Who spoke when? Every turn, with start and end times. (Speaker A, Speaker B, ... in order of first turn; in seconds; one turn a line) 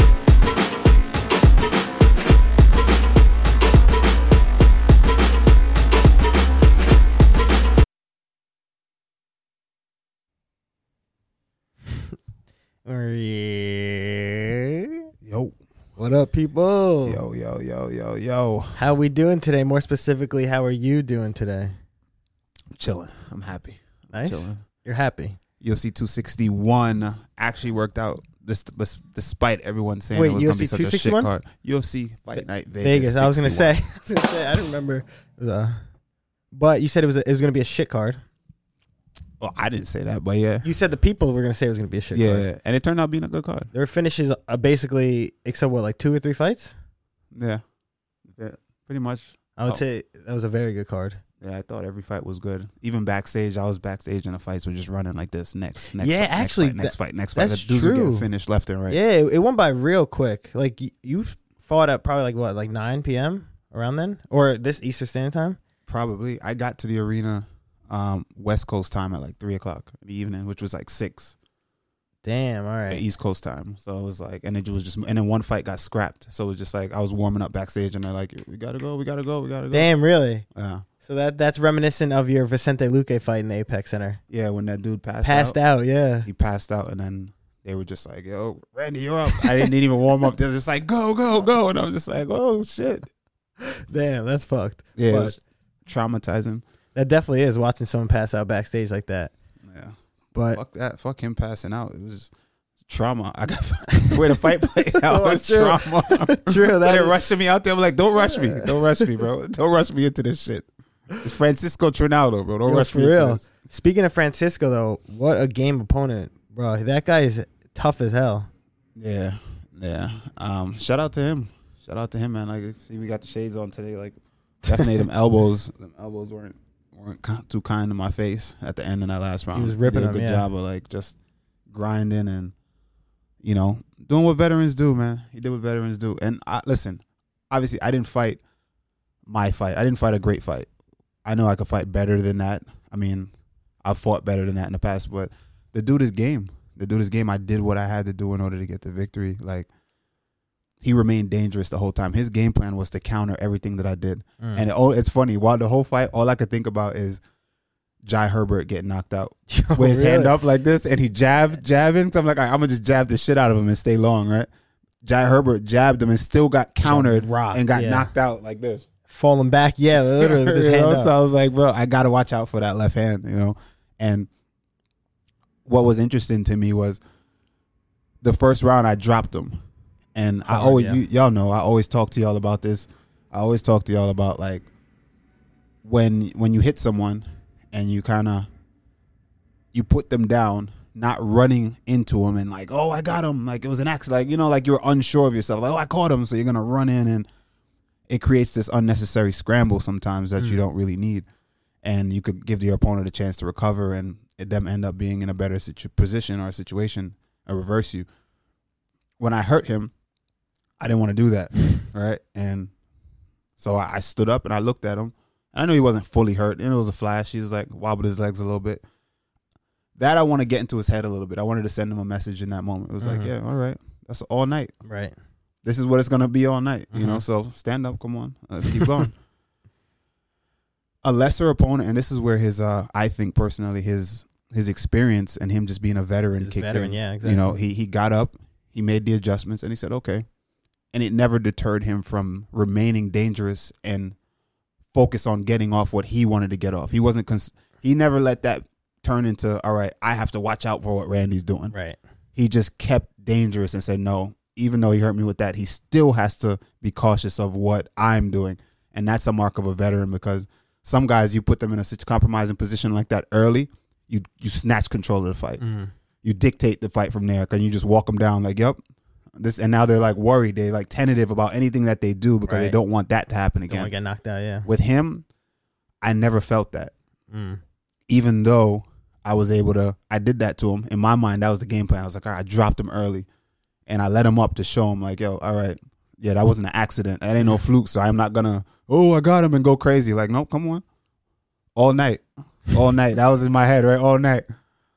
Speaker A: 12.8-14.9
Speaker B: 15.2-15.6
Speaker A: 16.0-17.2
Speaker B: 17.1-18.8
Speaker A: 18.7-21.7
Speaker B: 22.7-24.6
Speaker A: 24.1-25.4
Speaker B: 25.6-33.8
Speaker A: 30.1-31.3
Speaker A: 32.8-35.8
Speaker A: 36.5-38.2
Speaker B: 39.4-40.7
Speaker A: 40.6-42.5
Speaker B: 42.1-43.7
Speaker A: 43.7-46.7
Speaker B: 47.3-47.6
Speaker B: 48.3-49.8
Speaker A: 49.6-51.2
Speaker B: 51.4-59.0
Speaker A: 56.0-58.3
Speaker A: 58.9-65.6
Speaker B: 65.9-71.3
Speaker A: 72.2-73.0
Speaker B: 72.9-79.9
Speaker A: 79.7-80.4
Speaker B: 80.5-80.8
Speaker A: 81.0-84.2
Speaker B: 84.3-85.6
Speaker A: 85.2-86.3
Speaker B: 86.2-93.1
Speaker A: 93.6-95.4
Speaker B: 95.0-96.6
Speaker A: 96.9-99.3
Speaker B: 99.6-100.0
Speaker A: 100.3-100.6
Speaker B: 100.5-102.3
Speaker B: 102.8-110.7
Speaker A: 104.9-107.1
Speaker B: 111.2-113.4
Speaker A: 112.6-118.5
Speaker B: 119.0-131.2
Speaker A: 129.5-130.5
Speaker B: 131.7-132.5
Speaker B: 133.4-138.4
Speaker B: 139.3-140.7
Speaker B: 141.2-143.3
Speaker B: 143.8-149.7
Speaker B: 150.8-157.2
Speaker A: 154.4-154.7
Speaker B: 158.0-164.5
Speaker A: 159.5-160.3
Speaker B: 165.0-168.9
Speaker A: 166.8-168.1
Speaker A: 169.1-171.1
Speaker B: 170.2-174.3
Speaker B: 175.6-177.0
Speaker B: 178.2-179.6
Speaker B: 180.1-184.7
Speaker A: 180.4-181.0
Speaker B: 185.8-188.5
Speaker B: 189.7-197.3
Speaker B: 198.1-201.3
Speaker B: 201.8-208.1
Speaker B: 209.2-209.9
Speaker B: 210.8-212.7
Speaker B: 213.6-218.8
Speaker B: 219.9-224.7
Speaker A: 223.0-223.3
Speaker A: 224.8-225.1
Speaker B: 225.6-229.1
Speaker A: 226.9-227.2
Speaker B: 231.0-240.2
Speaker A: 236.4-237.6
Speaker B: 240.9-244.2
Speaker B: 244.9-251.7
Speaker A: 251.7-252.0
Speaker B: 252.3-265.6
Speaker A: 265.6-265.9
Speaker B: 266.2-268.8
Speaker B: 269.4-273.9
Speaker A: 272.4-272.8
Speaker A: 273.7-274.7
Speaker B: 274.6-275.2
Speaker B: 276.0-276.9
Speaker A: 277.3-277.6
Speaker B: 278.1-283.3
Speaker B: 283.9-290.8
Speaker B: 291.7-294.4